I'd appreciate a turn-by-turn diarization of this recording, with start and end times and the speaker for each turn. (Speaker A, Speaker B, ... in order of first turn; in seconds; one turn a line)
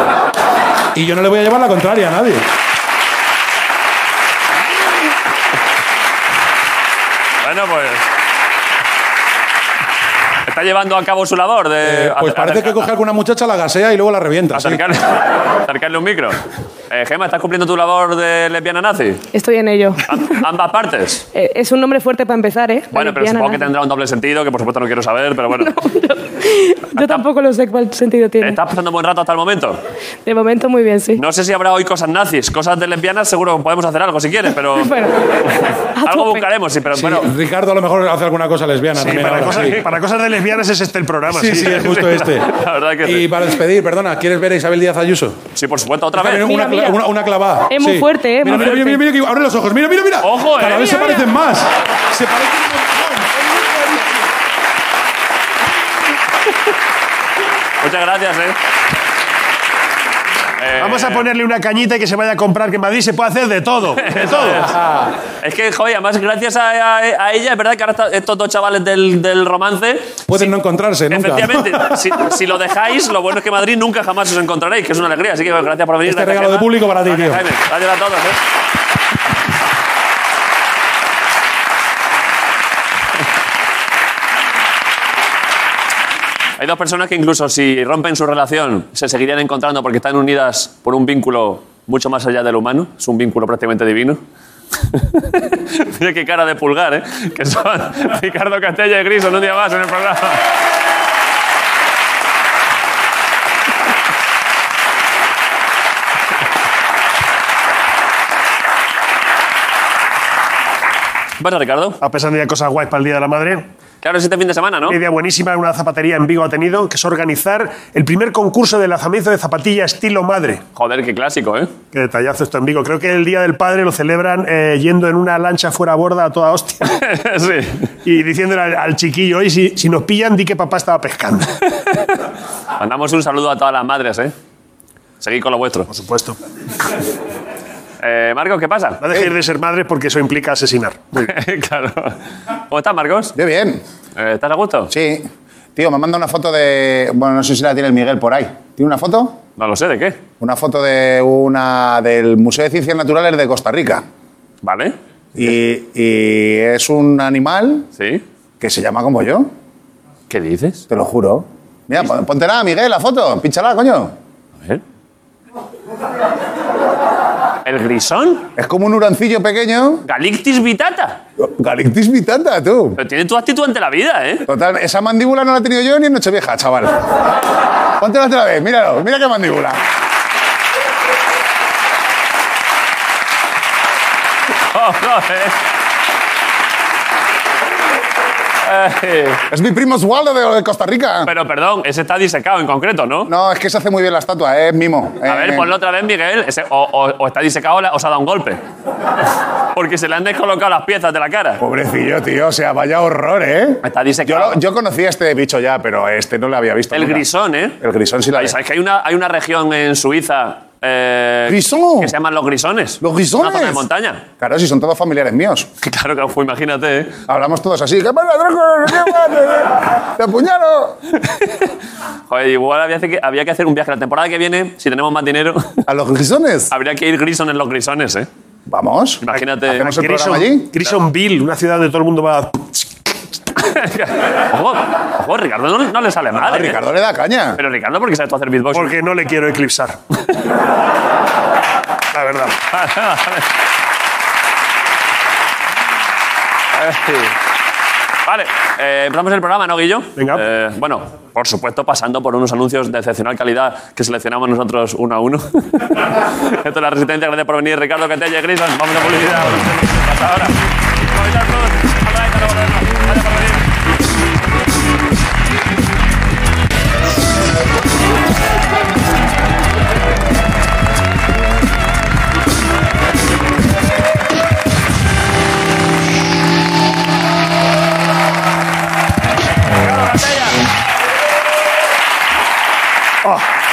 Speaker A: 0.9-2.5
Speaker B: 7.4-8.1
Speaker B: 10.5-12.9
Speaker A: 11.8-14.8
Speaker B: 14.5-19.2
Speaker C: 19.3-20.4
Speaker B: 20.1-21.2
Speaker C: 21.3-23.7
Speaker B: 22.9-25.7
Speaker C: 25.5-28.6
Speaker B: 26.9-27.2
Speaker B: 28.4-29.8
Speaker C: 30.2-31.2
Speaker B: 31.1-34.9
Speaker C: 34.8-35.2
Speaker C: 35.9-36.5
Speaker B: 36.0-37.3
Speaker A: 37.0-39.8
Speaker D: 39.0-41.8
Speaker B: 39.5-39.8
Speaker A: 41.3-45.4
Speaker B: 41.6-43.3
Speaker B: 45.5-46.5
Speaker A: 46.1-53.9
Speaker C: 46.4-47.0
Speaker C: 47.7-49.0
Speaker B: 48.5-48.8
Speaker B: 50.2-51.2
Speaker B: 57.8-58.6
Speaker B: 60.6-61.3
Speaker D: 60.8-64.7
Speaker B: 64.0-64.8
Speaker B: 65.4-70.5
Speaker A: 70.3-72.2
Speaker B: 71.1-78.4
Speaker A: 76.0-77.4
Speaker B: 86.6-94.2
Speaker B: 94.9-100.4
Speaker B: 111.4-112.0
Speaker D: 112.0-113.7
Speaker B: 114.0-115.0
Speaker D: 114.8-120.6
Speaker B: 120.8-121.7
Speaker D: 121.9-126.9
Speaker B: 126.8-127.9
Speaker D: 128.0-131.5
Speaker B: 132.8-134.3
Speaker B: 135.2-135.9
Speaker D: 135.9-136.4
Speaker B: 138.0-139.0
Speaker D: 139.0-141.3
Speaker B: 141.2-142.2
Speaker B: 142.7-143.3
Speaker E: 143.3-143.8
Speaker B: 144.2-144.9
Speaker E: 144.9-149.4
Speaker B: 149.6-150.2
Speaker E: 150.4-154.0
Speaker B: 154.6-154.9
Speaker E: 155.3-157.9
Speaker B: 158.0-158.2
Speaker E: 158.6-159.5
Speaker B: 160.3-160.8
Speaker E: 160.9-164.1
Speaker B: 167.6-168.4
Speaker E: 168.6-170.0
Speaker B: 170.1-171.2
Speaker E: 171.4-173.0
Speaker B: 173.0-174.4
Speaker E: 174.5-177.0
Speaker E: 178.0-179.8
Speaker B: 184.7-185.6
Speaker B: 188.6-189.4
Speaker E: 189.5-191.3
Speaker B: 191.2-193.3
Speaker E: 193.2-195.7
Speaker B: 195.2-198.6
Speaker B: 199.7-201.6
Speaker E: 201.6-207.2
Speaker B: 203.8-204.6
Speaker B: 206.9-207.8
Speaker E: 207.8-208.5
Speaker B: 208.3-214.2
Speaker E: 211.5-212.1
Speaker E: 213.0-213.8
Speaker E: 214.4-215.7
Speaker B: 215.8-217.2
Speaker E: 217.3-221.0
Speaker B: 221.3-221.7
Speaker B: 222.3-225.8
Speaker E: 225.9-226.7
Speaker B: 226.7-228.3
Speaker E: 228.7-230.7
Speaker B: 229.2-229.9
Speaker D: 229.4-232.9
Speaker B: 233.6-236.8
Speaker E: 236.4-237.6
Speaker B: 237.6-238.9
Speaker D: 238.7-240.0
Speaker D: 242.1-242.6
Speaker B: 242.7-243.4
Speaker B: 246.7-247.3
Speaker B: 248.2-263.6
Speaker D: 250.2-250.4
Speaker B: 279.8-280.6